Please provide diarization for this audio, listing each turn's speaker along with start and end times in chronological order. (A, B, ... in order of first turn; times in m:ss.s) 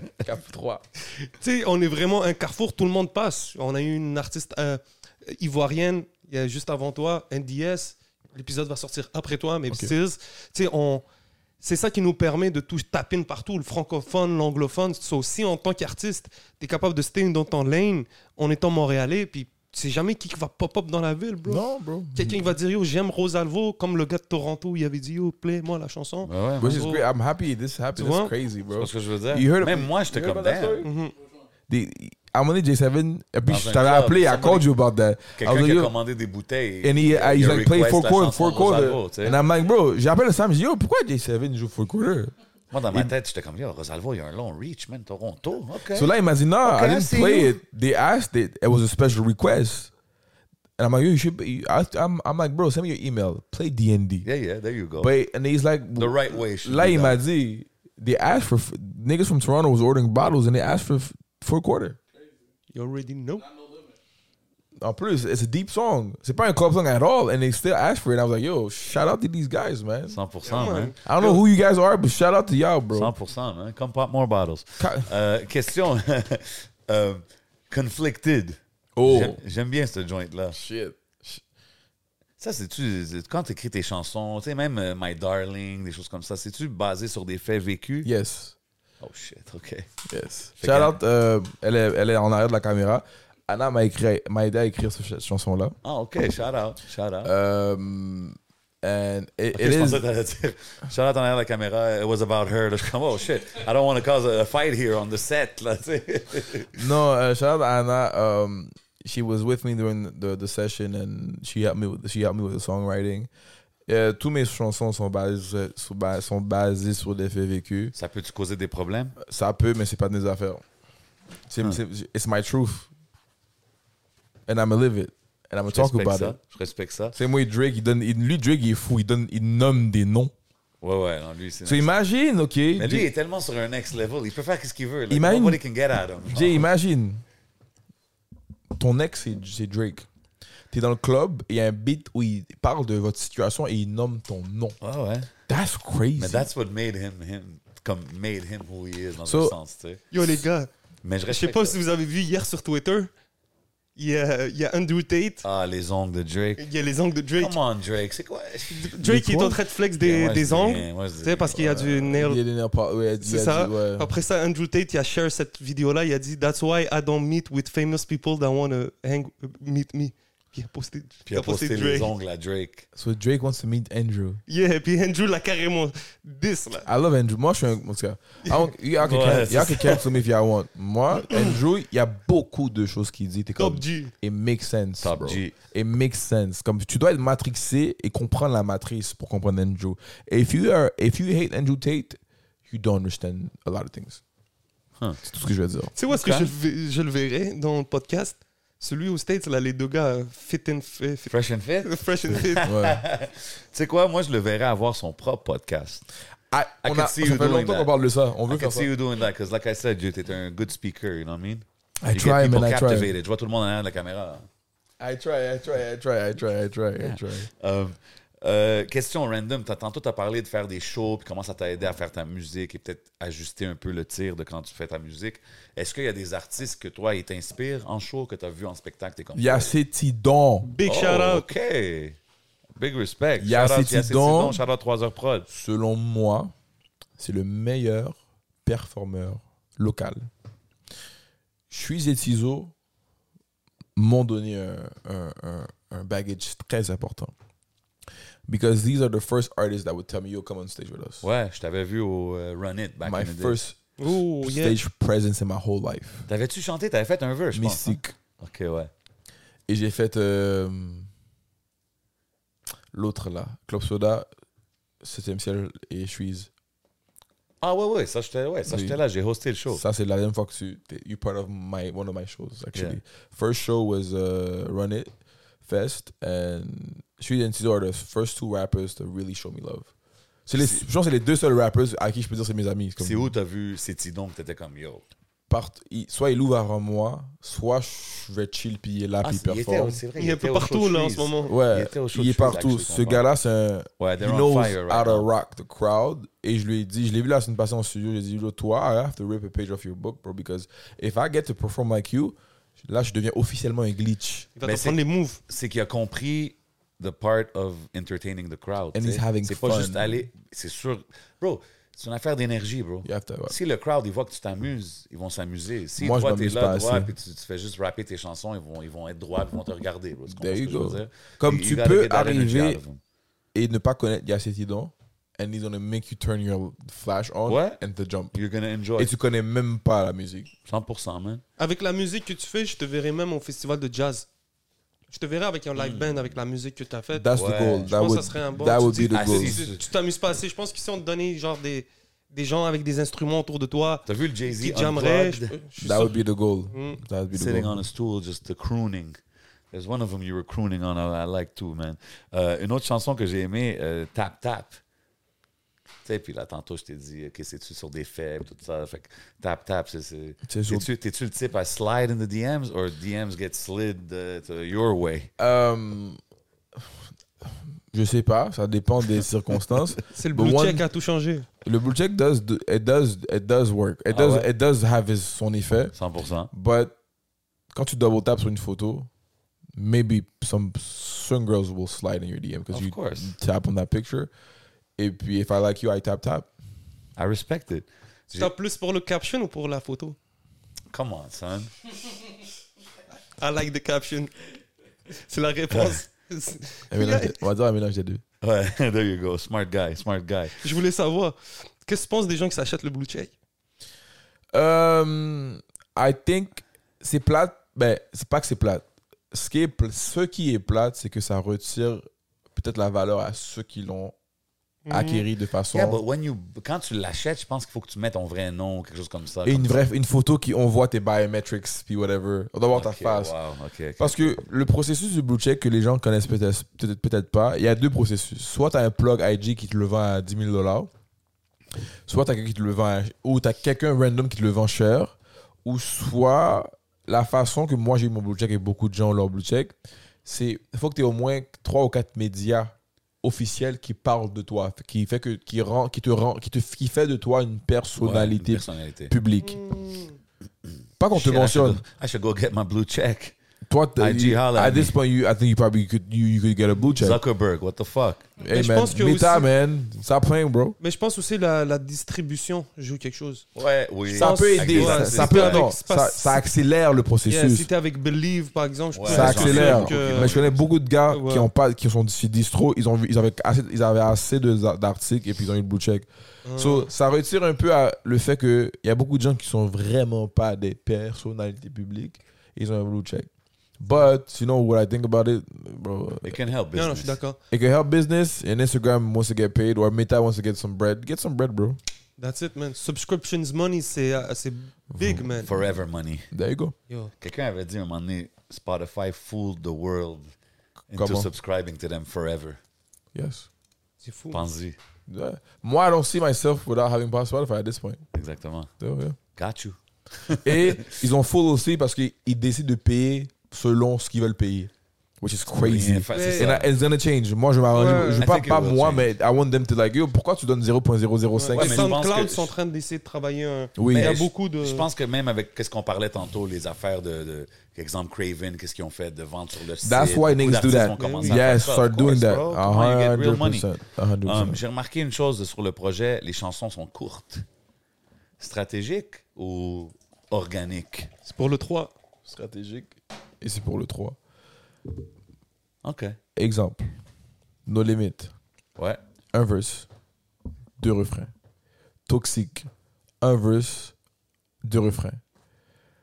0:00.2-0:00.8 A
0:01.3-0:11.0 B
0:11.6-0:27.0 B
0:21.5-0:22.5 A
0:26.3-0:26.7 C
0:26.6-0:30.9 A
0:28.0-0:28.3 B
0:28.8-0:30.8 C
0:30.8-0:31.1 B
0:31.7-0:35.9 A
0:33.5-0:34.7 C
0:35.4-0:39.4 C
0:36.8-0:42.3 A
0:42.7-0:46.1 C
0:45.9-0:49.9 A
0:46.6-0:47.6 C
0:50.8-0:54.3 A
0:54.2-0:55.1 C
0:55.0-1:02.0 A
0:56.0-0:57.2 C
1:02.7-1:03.5 B
1:04.8-1:10.2 A
1:10.1-1:11.0 C
1:10.5-1:11.4 B
1:11.0-1:13.1 A
1:12.9-1:20.6 C
1:14.8-1:15.1 A
1:19.0-1:19.4 A
1:20.5-1:21.4 A
1:22.4-1:28.1 C
1:28.0-1:28.6 A
1:29.0-1:29.9 C
1:30.1-1:35.8 A
1:30.6-1:31.0 C
1:35.8-1:37.3 C
1:37.2-1:40.0 A
1:39.5-1:46.9 C
1:46.8-1:53.3 A
1:53.9-1:57.9 A
1:58.0-1:59.2 C
1:59.2-2:00.6 A
2:01.5-2:02.9 A
2:04.5-2:06.4 A
2:05.7-2:07.2 C
2:07.2-2:10.3 A
2:10.8-2:11.9 C
2:11.6-2:13.1 A
2:12.8-2:16.6 C
2:15.1-2:15.6 A
2:16.3-2:17.2 A
2:18.8-2:20.1 A
2:20.7-2:24.8 A
2:24.8-2:25.3 C
2:25.5-2:26.5 A
2:26.2-2:30.0 C
2:29.2-2:29.6 A
2:30.1-2:30.7 B
2:31.0-2:31.8 C
2:31.3-2:33.1 B
2:34.0-2:35.4 B
2:35.4-2:36.7 C
2:36.6-2:37.6 B
2:37.4-2:39.0 C
2:38.7-2:42.4 B
2:39.0-2:39.6 A
2:40.0-2:41.7 C
2:41.6-2:44.1 A
2:43.2-2:52.1 B
2:51.3-2:52.9 C
2:53.0-2:54.4 A
2:54.5-2:56.9 B
2:56.9-3:14.2 A
2:58.4-2:58.7 B
2:59.0-3:00.1 C
3:03.6-3:04.1 B
3:05.0-3:05.5 C
3:15.2-3:16.5 A
3:16.0-3:21.3 B
3:21.3-3:26.1 C
3:21.8-3:22.7 B
3:22.6-3:23.0 A
3:26.5-3:28.9 A
3:26.8-3:27.9 C
3:28.5-3:34.5 C
3:32.0-3:33.1 A
3:35.0-3:37.5 A
3:37.0-3:49.7 C
3:49.4-3:50.7 A
3:50.6-3:51.5 B
3:50.8-3:52.2 C
3:52.8-3:55.5 C
3:53.4-3:54.6 A
3:55.5-3:56.5 A
3:57.2-4:00.3 A
4:01.7-4:02.7 A
4:04.0-4:07.3 A
4:08.5-4:11.2 A
4:11.2-4:13.6 C
4:13.0-4:13.8 A
4:14.0-4:14.8 B
4:14.4-4:16.3 A
4:16.3-4:18.9 C
4:17.5-4:18.2 A
4:19.7-4:21.1 A
4:22.9-4:24.3 A
4:25.0-4:26.5 A
4:27.6-4:29.8 C
4:28.7-4:29.0 A
4:29.7-4:35.1 A
4:35.6-4:39.9 A
4:40.5-4:43.4 A
4:40.5-4:40.8 C
4:43.0-4:45.0 C
4:45.5-4:50.0 A
4:49.2-4:53.2 C
4:50.2-4:51.5 B
4:51.5-5:04.5 A
4:54.0-4:55.3 C
5:04.6-5:05.4 B
5:04.6-5:23.0 C
5:08.9-5:10.2 A
5:13.0-5:13.6 A
5:16.0-5:17.1 A
5:20.3-5:22.8 A
5:23.6-5:28.3 A
5:27.5-5:27.8 C
5:28.3-5:29.1 C
5:29.0-5:30.5 A
5:30.7-5:31.4 C
5:31.6-5:34.3 B
5:35.1-5:37.3 B
5:35.8-5:36.2 C
5:37.1-5:39.6 A
5:37.3-5:37.9 C
5:37.8-5:46.2 B
5:39.1-5:39.8 C
5:44.1-5:45.6 C
5:45.8-5:47.8 A
5:46.7-5:47.0 B
5:47.3-5:49.2 C
5:49.7-5:54.8 C
5:56.0-6:05.3 C
6:00.5-6:00.9 A
6:05.4-6:06.2 A
6:07.9-6:10.8 A
6:10.1-6:11.5 B
6:11.6-6:15.9 A
6:14.1-6:14.5 C
6:16.0-6:16.5 C
6:16.5-6:17.0 A
6:17.7-6:19.1 A
6:19.8-6:24.3 A
6:22.7-6:23.3 C
6:25.0-6:26.5 A
6:27.2-6:28.5 C
6:28.3-6:30.2 B
6:30.9-6:31.7 C
6:33.4-6:34.3 B
6:35.1-6:37.4 B
6:35.7-6:36.0 C
6:36.9-6:38.2 A
6:38.4-6:40.6 C
6:40.6-6:43.3 B
6:44.5-6:54.1 A
6:54.9-6:55.2 B
6:54.9-6:56.0 A
6:55.7-6:59.8 C
6:59.4-7:03.4 A
7:02.7-7:04.3 C
7:04.0-7:10.9 A
7:12.1-7:19.7 A
7:20.2-7:29.6 A
7:28.0-7:29.1 C
7:29.4-7:30.2 B
7:31.0-7:31.8 A
7:31.1-7:33.4 C
7:33.7-7:37.2 A
7:34.0-7:35.0 C
7:37.0-7:38.3 C
7:38.4-7:40.8 A
7:38.5-7:39.5 B
7:40.8-7:43.4 B
7:43.6-7:45.7 C
7:44.1-7:46.4 B
7:44.1-7:47.7 A
7:47.3-7:50.4 B
7:48.9-7:50.6 C
7:49.1-8:03.3 A
7:51.1-7:51.5 B
7:56.4-7:56.9 B
8:03.8-8:06.4 A
8:06.2-8:07.2 C
8:06.8-8:07.4 B
8:07.5-8:11.8 A
8:12.2-8:15.5 B
8:14.9-8:15.3 A
8:15.4-8:16.3 C
8:16.3-8:16.8 A
8:17.2-8:20.3 C
8:20.9-8:22.6 C
8:20.9-8:21.3 A
8:23.1-8:23.5 A
8:24.0-8:24.4 B
8:24.3-8:24.8 C
8:25.1-8:28.0 A
8:28.1-8:28.7 C
8:28.8-8:29.2 A
8:29.4-8:31.0 C
8:30.4-8:41.9 A
8:35.6-8:36.7 C
8:36.1-8:36.5 B
8:37.7-8:38.2 B
8:37.8-8:39.1 C
8:41.4-8:44.9 B
8:41.5-8:42.5 C
8:43.8-8:44.2 A
8:43.9-8:53.7 C
8:49.8-8:54.6 A
8:51.0-8:51.5 B
8:54.2-8:57.4 C
8:58.4-9:01.1 C
9:01.2-9:01.9 B
9:02.2-9:04.2 A
9:05.8-9:06.2 C
9:06.4-9:06.9 A
9:07.7-9:08.3 A
9:09.3-9:09.9 A
9:10.8-9:11.3 A
9:12.1-9:12.7 A
9:13.2-9:13.9 A
9:14.6-9:15.2 A